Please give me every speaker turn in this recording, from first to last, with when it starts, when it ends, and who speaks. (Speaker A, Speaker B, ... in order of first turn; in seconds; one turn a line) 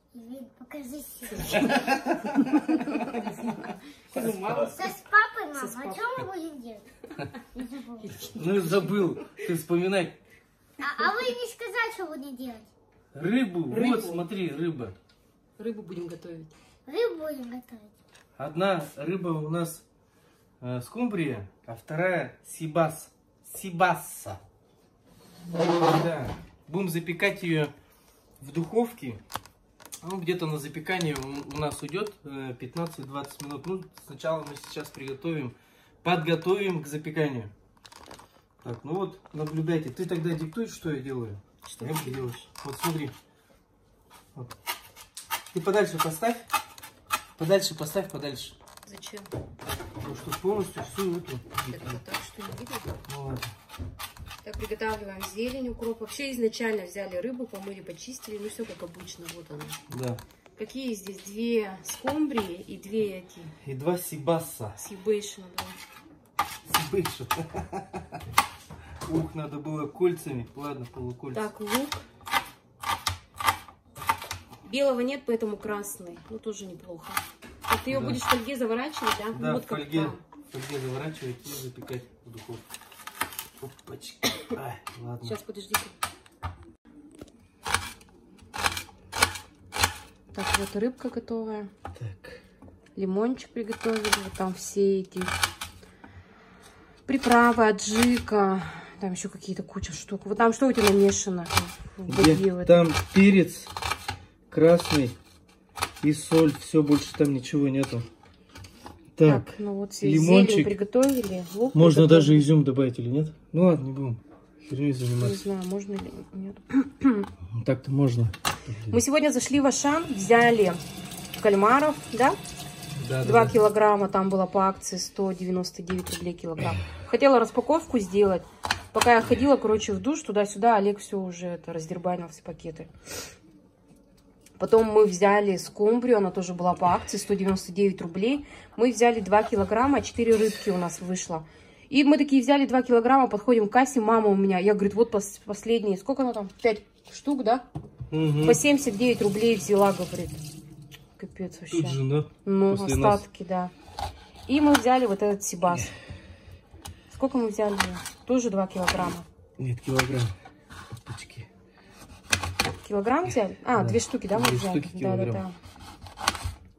Speaker A: 0.1-1.8
Speaker B: 1.7-2.8
Speaker C: 2.4-4.9
Speaker B: 4.1-4.7
Speaker A: 4.7-6.8
Speaker C: 5.6-6.1
Speaker A: 7.5-8.1
Speaker C: 8.0-8.9
Speaker B: 8.3-10.2
Speaker A: 10.8-12.7
Speaker B: 13.1-15.0
Speaker C: 13.7-14.3
Speaker C: 15.6-16.5
Speaker A: 16.9-17.9
Speaker B: 18.4-19.9
Speaker B: 20.6-24.4
Speaker B: 25.6-27.7
Speaker B: 28.4-29.2
Speaker B: 30.0-37.5
Speaker B: 38.6-43.1
Speaker C: 41.6-42.2
Speaker B: 45.5-46.5
Speaker B: 47.4-48.6
Speaker C: 48.8-49.3
Speaker B: 50.0-52.0
Speaker C: 51.7-52.9
Speaker B: 53.1-53.5
Speaker C: 54.4-59.8
Speaker B: 59.9-60.2
Speaker C: 60.5-63.5
Speaker B: 63.6-64.8
Speaker C: 64.8-65.8
Speaker B: 66.7-68.2
Speaker B: 69.0-71.5
Speaker C: 71.3-72.0
Speaker C: 74.6-80.2
Speaker B: 77.9-78.2
Speaker B: 79.3-82.7
Speaker B: 83.6-85.3
Speaker C: 85.2-85.9
Speaker C: 90.3-91.7
Speaker B: 91.9-92.4
Speaker C: 92.9-95.3
Speaker C: 97.0-102.8
Speaker B: 102.1-103.7
Speaker B: 104.5-105.2
Speaker B: 106.0-108.1
Speaker B: 109.2-110.8
Speaker C: 109.2-112.5
Speaker B: 111.7-115.4
Speaker C: 115.2-117.3
Speaker B: 117.5-119.0
Speaker C: 118.9-120.8
Speaker C: 121.4-122.4
Speaker B: 123.0-123.6
Speaker C: 123.2-132.9
Speaker C: 134.6-147.7
Speaker B: 148.1-148.6
Speaker C: 148.4-150.4
Speaker C: 151.2-153.7
Speaker B: 151.7-153.2
Speaker C: 154.5-155.9
Speaker C: 157.1-159.3
Speaker B: 159.6-160.3
Speaker B: 161.0-161.5
Speaker C: 162.8-165.6
Speaker B: 163.7-165.4